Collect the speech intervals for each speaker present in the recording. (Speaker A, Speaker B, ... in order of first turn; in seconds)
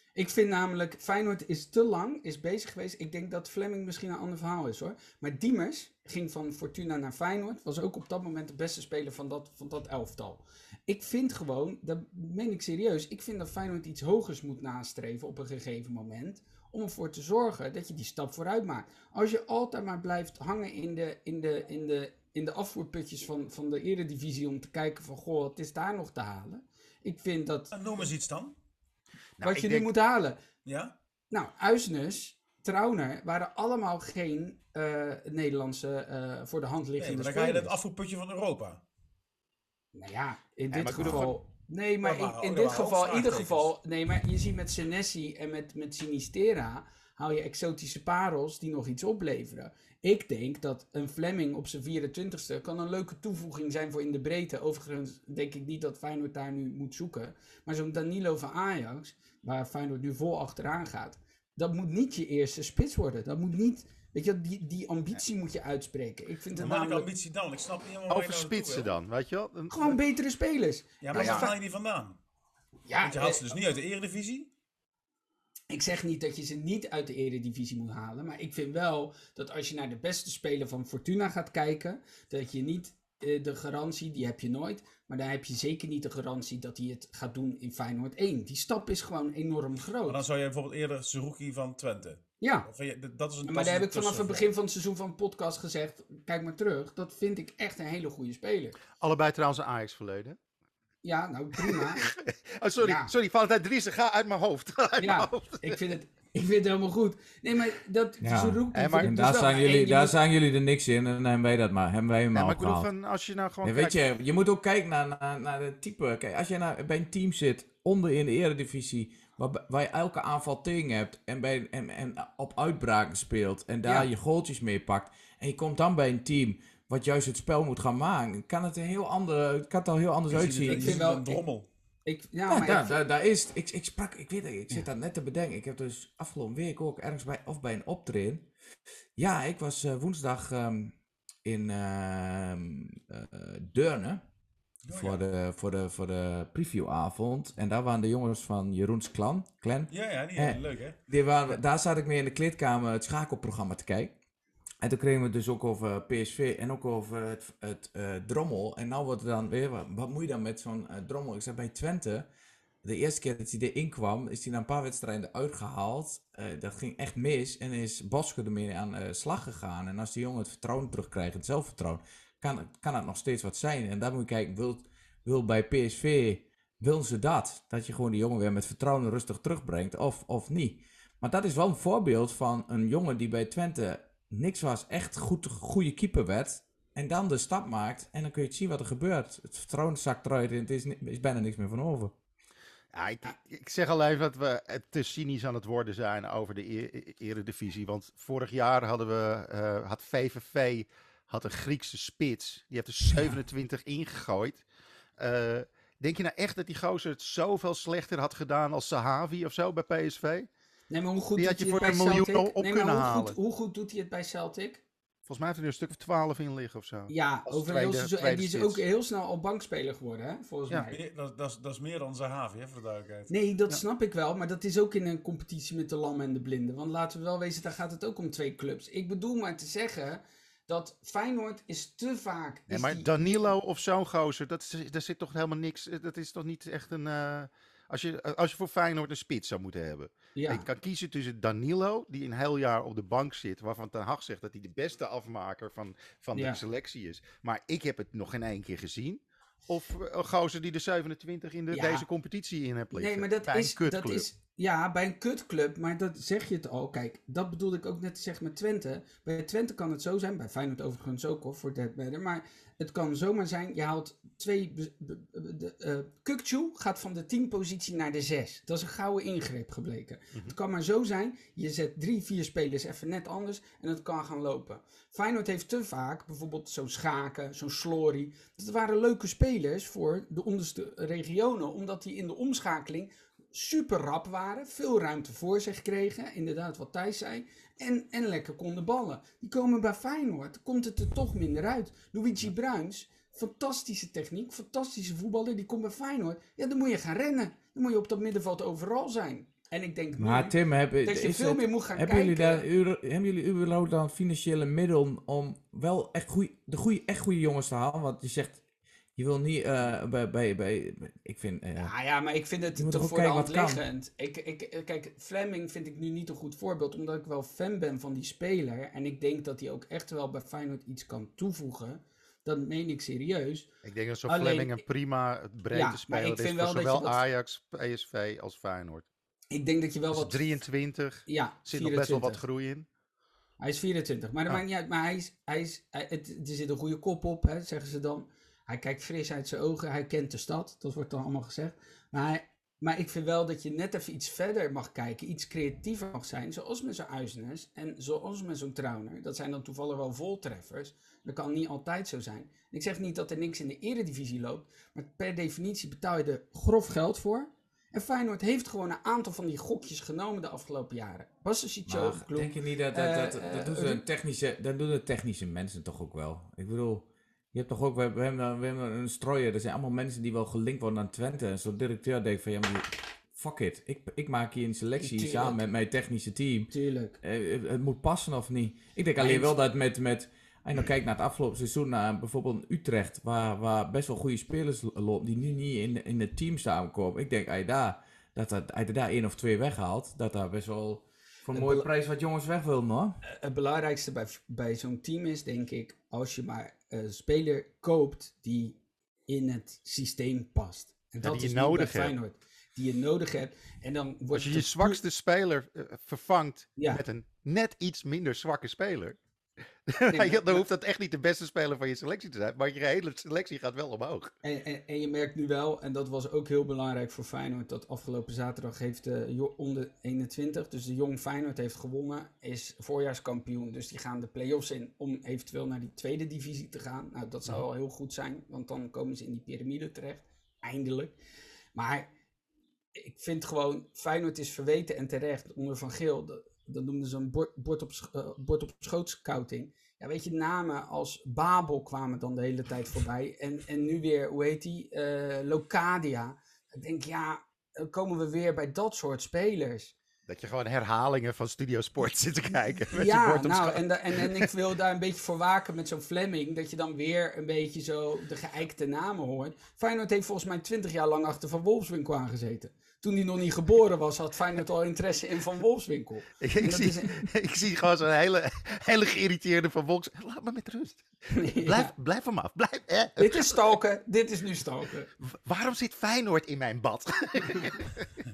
Speaker A: 0.1-27.7, 29.4-30.4, 31.3-37.8, 39.9-67.1, 69.7-71.5, 72.9-73.5, 75.7-90.2, 92.4-92.7, 93.4-98.8, 101.0-102.1, 102.8-103.1, 105.0-110.1, 130.7-131.4, 132.1-132.9, 210.9-214.8, 217.1-221.0, 223.3-233.2, 240.3-240.6, 246.3-246.6, 251.7-252.1, 252.9-302.6, 311.8-323.7, 324.3-324.8, 325.7-327.2, 329.5-330.4, 331.3-332.4, 333.6-364.0, 375.0-375.6, 376.7-377.2, 379.2-379.6, 391.5-391.9, 393.2-405.0, 406.8-407.0, 410.1-410.6, 414.4-431.1, 431.7-432.1, 432.9-449.9, 452.9-467.2, 471.3-471.9, 473.2-475.1
Speaker B: 27.7-28.5, 30.6-30.9, 37.0-38.8, 42.0-43.7, 66.5-68.9, 71.0-72.2, 73.0-74.5, 90.0-94.5, 130.3-131.7, 144.8-145.2, 149.9-151.0, 220.9-223.3
Speaker C: 29.4-29.9, 40.7-41.3, 68.1-70.0, 71.1-71.5, 99.0-100.4, 101.6-105.8, 108.7-109.2, 112.3-114.0, 192.9-204.6, 205.2-210.5, 211.4-213.3, 215.2-218.8, 232.7-254.3, 323.8-329.1, 330.1-332.9, 401.2-402.1, 404.3-409.2, 409.9-414.3, 450.3-454.5, 466.4-471.0, 471.6-473.6, 475.2-478.1
Speaker D: 108.2-112.9, 113.6-131.0, 132.5-138.5, 139.2-144.2, 144.9-154.1, 154.8-162.3, 162.8-192.1, 300.2-308.6, 309.1-311.9, 312.8-313.8, 361.9-393.2